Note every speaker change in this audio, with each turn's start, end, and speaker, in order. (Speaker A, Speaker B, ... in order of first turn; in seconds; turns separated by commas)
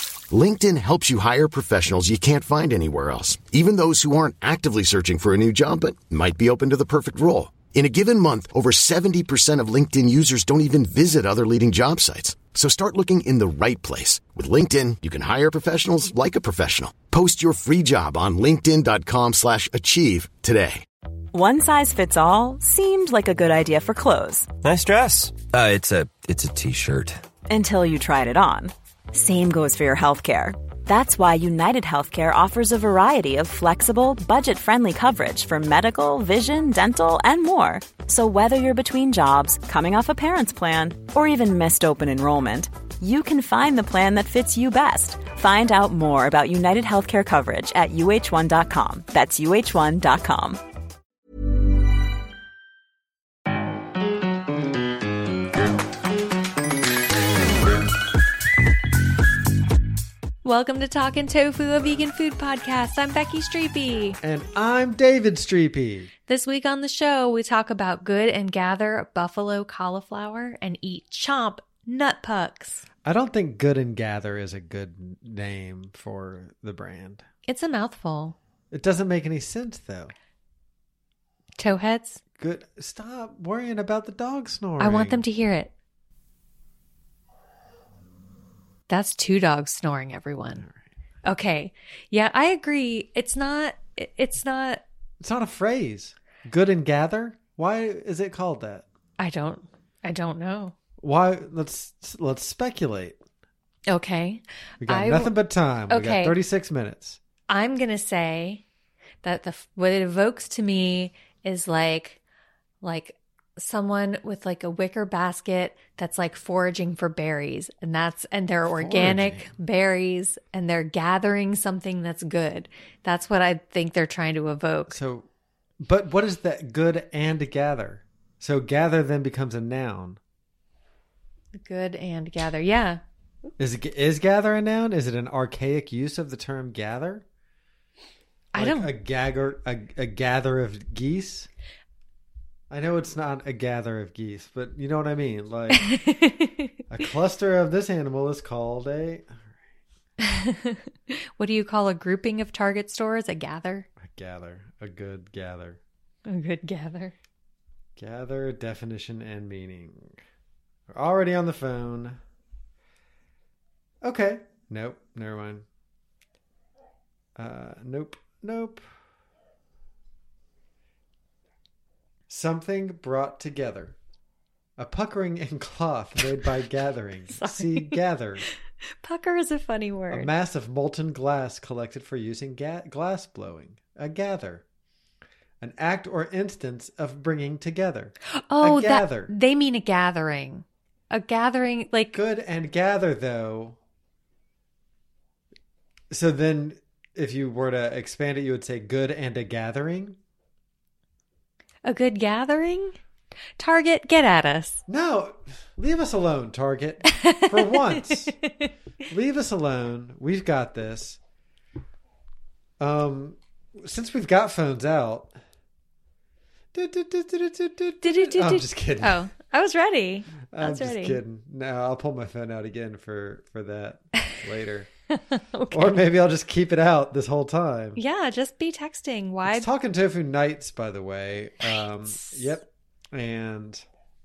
Speaker A: 0.3-20.8, Speaker B: 21.3-24.5, Speaker C: 24.6-27.2, Speaker B: 27.5-50.6, Speaker D: 60.4-64.2, Speaker E: 64.2-66.1, Speaker D: 66.3-72.8, Speaker E: 73.0-77.3, Speaker D: 77.5-78.4, Speaker E: 78.7-80.1, Speaker D: 81.6-82.2, Speaker E: 82.4-85.2, Speaker D: 84.8-85.7, Speaker D: 88.9-90.7, Speaker D: 91.2-94.8, Speaker E: 95.2-98.8, Speaker D: 99.2-100.8, Speaker E: 101.0-103.2, Speaker D: 103.9-105.3, Speaker E: 104.8-107.2, Speaker D: 105.9-106.4, Speaker D: 107.5-108.6, Speaker D: 109.2-112.2, Speaker D: 112.8-125.0, Speaker E: 118.7-119.5, Speaker E: 124.9-125.3, Speaker E: 125.8-130.2, Speaker D: 131.6-133.5, Speaker E: 133.6-137.2, Speaker D: 138.5-138.9, Speaker E: 138.6-141.5, Speaker E: 142.7-145.9, Speaker D: 145.9-146.7, Speaker E: 146.9-149.4, Speaker D: 150.2-153.9, Speaker E: 154.0-155.8, Speaker D: 156.3-157.1, Speaker E: 158.0-160.2, Speaker E: 160.9-162.2, Speaker E: 164.0-165.7, Speaker E: 167.4-168.9, Speaker E: 172.3-174.0, Speaker E: 174.8-178.5, Speaker D: 177.3-178.0, Speaker D: 179.0-180.3, Speaker E: 180.1-184.6, Speaker E: 185.6-189.3, Speaker D: 188.5-192.2, Speaker E: 192.1-193.8, Speaker E: 196.1-200.2, Speaker D: 201.8-203.0, Speaker D: 203.6-204.8, Speaker E: 204.9-208.4, Speaker D: 207.1-208.7, Speaker E: 209.1-211.2, Speaker E: 212.8-215.3, Speaker E: 216.7-219.3, Speaker D: 218.0-221.2, Speaker E: 220.5-224.9, Speaker D: 225.3-226.0, Speaker E: 225.7-228.0, Speaker D: 228.0-229.7, Speaker E: 229.5-233.8, Speaker D: 232.1-232.4